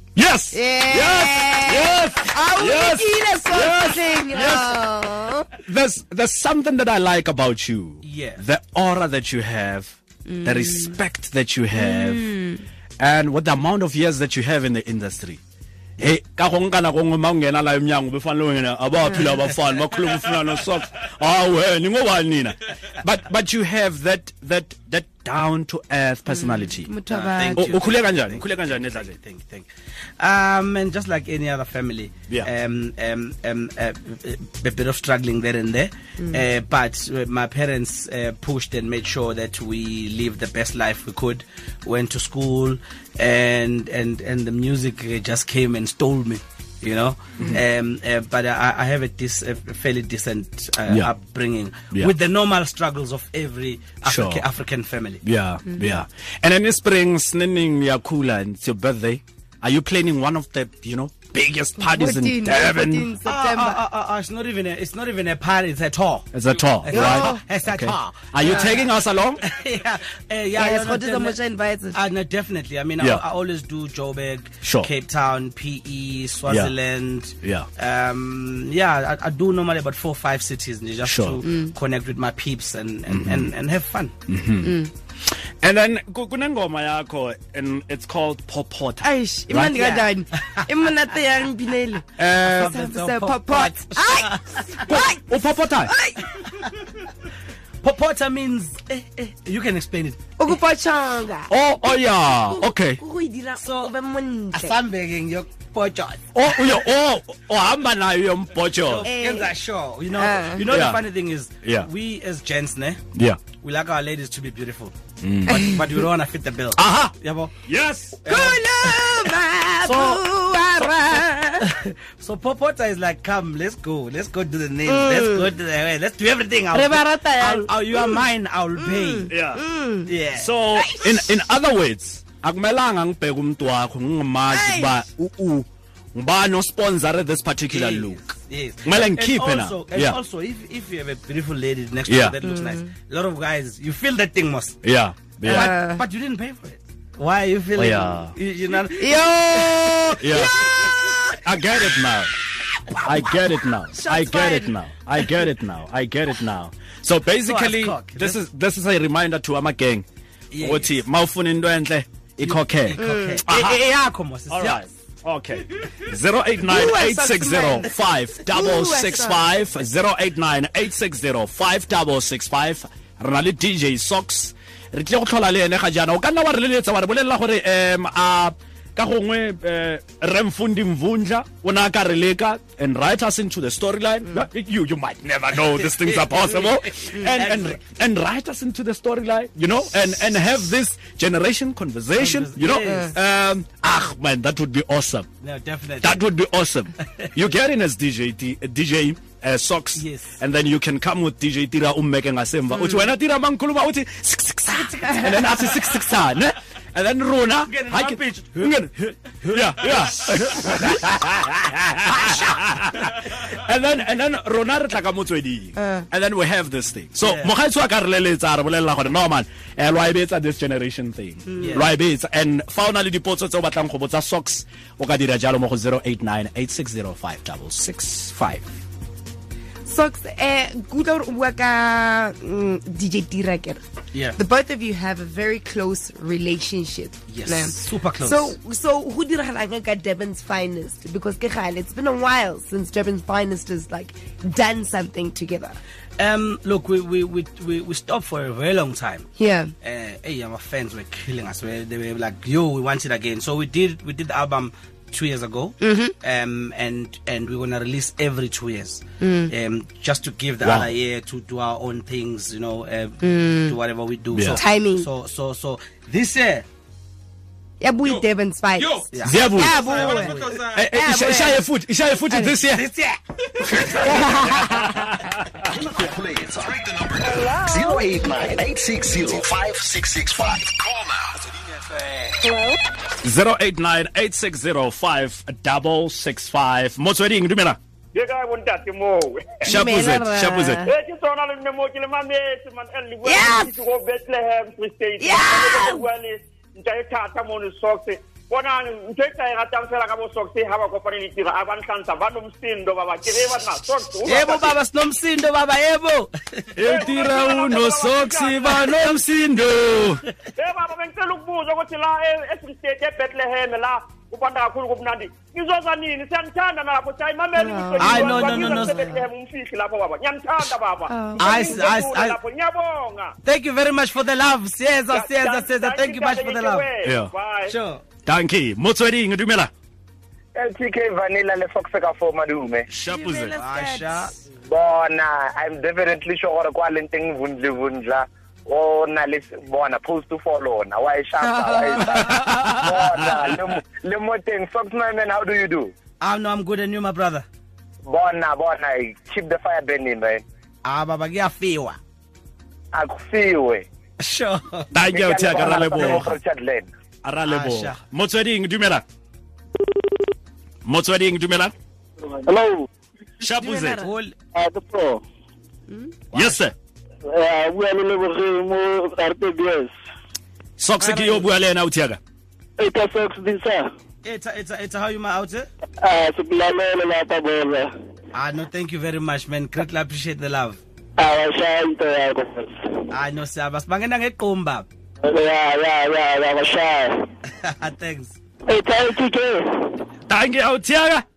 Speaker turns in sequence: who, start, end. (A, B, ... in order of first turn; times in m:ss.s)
0:00.1-0:04.8 A
0:00.5-0:05.5 B
0:05.5-0:12.3 A
0:08.0-0:08.4 C
0:10.3-0:11.0 B
0:11.7-0:12.6 B
0:13.0-0:15.4 A
0:16.0-0:26.9 A
0:19.0-0:19.3 B
0:26.3-0:27.8 B
0:27.1-0:29.7 C
0:27.4-0:29.2 A
0:30.2-0:55.2 C
0:36.2-0:36.4 B
0:54.0-0:54.4 A
0:55.2-1:03.1 A
1:01.8-1:03.8 B
1:03.2-1:08.8 C
1:06.3-1:09.4 A
1:06.9-1:07.4 B
1:08.4-1:08.8 B
1:09.4-1:11.4 C
1:10.5-1:12.0 B
1:11.9-1:24.1 C
1:14.6-1:14.9 A
1:16.5-1:16.7 A
1:17.4-1:17.7 A
1:21.0-1:21.4 A
1:21.4-1:21.7 B
1:23.1-1:23.5 A
1:24.3-1:24.7 A
1:24.6-1:24.9 B
1:25.6-1:29.8 A
1:29.0-1:36.4 B
1:29.6-1:30.0 C
1:32.2-1:32.7 A
1:32.2-1:34.8 C
1:34.8-1:35.9 A
1:36.4-1:36.9 C
1:37.8-1:40.2 C
1:40.4-1:41.5 B
1:41.5-1:43.0 A
1:42.1-1:44.8 B
1:43.6-1:43.9 C
1:44.5-1:46.7 C
1:46.3-1:49.1 A
1:48.8-1:53.0 C
1:49.0-1:49.5 B
1:50.1-1:50.7 B
1:50.6-1:51.0 A
1:51.6-1:51.9 A
1:53.1-1:53.4 A
1:53.5-1:54.9 C
1:55.2-1:55.7 A
1:55.4-1:57.5 C
1:56.8-1:58.2 A
1:58.2-2:00.2 C
1:58.3-2:01.7 B
2:01.6-2:09.3 C
2:04.8-2:05.5 B
2:06.7-2:08.2 B
2:08.8-2:10.1 B
2:09.3-2:09.6 A
2:10.1-2:10.5 C
2:10.3-2:18.3 A
2:10.8-2:11.4 B
2:14.5-2:15.0 B
2:17.7-2:24.8 C
2:18.8-2:20.2 A
2:22.1-2:22.4 A
2:22.4-2:22.9 B
2:24.8-2:25.7 A
2:25.4-2:30.5 C
2:25.4-2:26.0 B
2:27.8-2:28.4 A
2:28.9-2:31.0 B
2:30.2-2:30.7 A
2:31.3-2:32.3 A
2:33.0-2:40.1 A
2:33.9-2:34.7 B
2:37.4-2:38.4 C
2:40.5-2:41.0 C
2:40.6-2:43.8 A
2:42.4-2:44.9 C
2:43.0-2:43.4 B
2:44.5-3:15.3 A
2:46.6-2:47.9 B
2:48.4-2:49.4 B
3:05.7-3:07.8 C
3:12.2-3:13.2 C
3:12.7-3:13.1 B
3:15.4-3:16.2 C
3:16.0-3:48.7 A
3:20.0-3:20.4 C
3:25.0-3:25.5 B
3:27.6-3:28.7 C
3:29.4-3:30.5 C
3:35.8-3:36.1 B
3:37.2-3:37.5 C
3:41.6-3:41.9 C
3:49.8-3:53.8 B
3:54.1-3:54.4 C
3:54.3-4:05.8 B
3:57.3-3:58.5 C
4:06.2-4:09.3 C
4:09.4-4:09.7 B
4:09.8-4:26.6 C
4:15.8-4:16.1 B
4:19.2-4:19.5 B
4:20.6-4:20.9 A
4:23.2-4:23.8 B
4:24.3-4:24.6 A
4:24.6-4:25.1 B
4:27.8-4:31.6 B
4:29.1-4:30.7 C
4:29.2-4:29.9 A
4:30.6-4:32.9 A
4:32.2-4:32.6 B
4:32.7-4:33.8 C
4:34.0-4:34.9 B
4:34.6-4:35.7 A
4:35.7-4:41.7 D
4:37.2-4:38.2 E
4:42.4-4:42.8 E
4:43.2-4:47.8 A
4:48.1-4:49.6 F
4:49.6-4:50.8 A
4:49.6-4:50.9 B
4:50.8-5:04.8 F
4:53.2-4:53.7 B
4:55.2-4:56.1 B
5:04.2-5:06.7 C
5:06.8-5:10.2 A
5:06.8-5:09.2 F
5:10.5-5:23.3 F
5:17.6-5:19.2 B
5:18.0-5:19.2 C
5:21.1-5:21.9 B
5:21.4-5:22.4 C
5:23.4-5:26.9 C
5:25.1-5:27.7 F
5:27.0-5:27.3 A
5:27.6-5:28.0 C
5:28.2-5:29.7 A
5:30.5-5:32.9 E
5:32.9-5:33.6 A
5:33.1-5:34.3 B
5:33.6-5:34.3 C
5:34.7-5:45.9 E
5:41.4-5:42.4 B
5:42.3-5:43.4 A
5:46.2-5:47.4 C
5:48.0-5:50.4 E
5:50.8-5:52.0 C
5:52.9-5:53.9 E
5:54.2-5:54.9 C
5:54.9-5:56.4 A
5:55.0-5:56.9 E
5:57.2-5:59.0 A
5:57.4-5:58.0 C
6:00.8-6:01.7 A
6:02.2-6:02.9 G
6:03.4-6:04.0 A
6:03.4-6:04.1 B
6:04.0-6:04.4 C
6:04.5-6:05.2 G
6:05.9-6:06.1 B
6:06.3-6:06.6 C
6:06.3-6:06.7 A
6:07.2-6:09.9 G
6:10.8-6:12.2 A
6:11.0-6:11.5 C
6:12.8-6:13.9 G
6:14.2-6:15.7 C
6:16.0-6:17.9 G
6:18.3-6:20.8 C
6:21.2-6:22.7 G
6:23.1-6:24.9 C
6:25.2-6:27.3 G
6:27.5-6:28.4 C
6:28.7-6:30.0 G
6:30.3-6:31.2 A